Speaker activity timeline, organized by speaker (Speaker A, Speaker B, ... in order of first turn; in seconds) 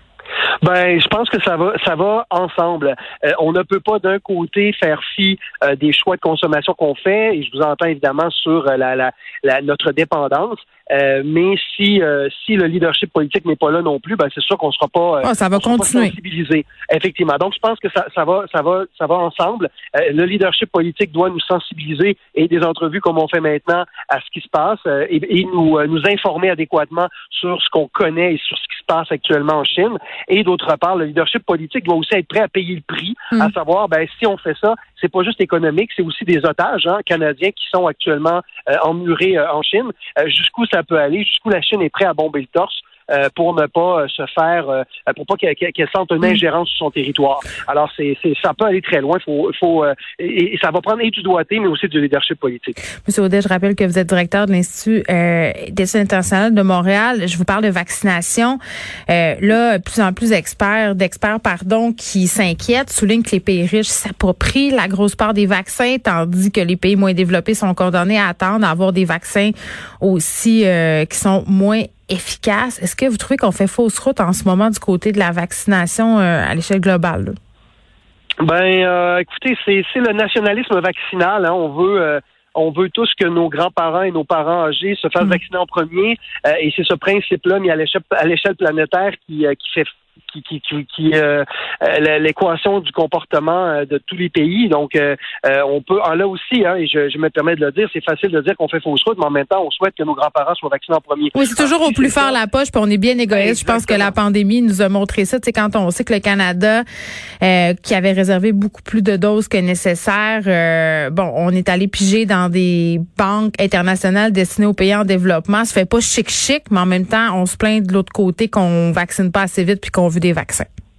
Speaker A: 0.6-52.8, 78.4-102.4, 103.3-104.1
Speaker B: 15.2-16.2, 53.0-77.4, 101.3-106.8, 107.4-120.7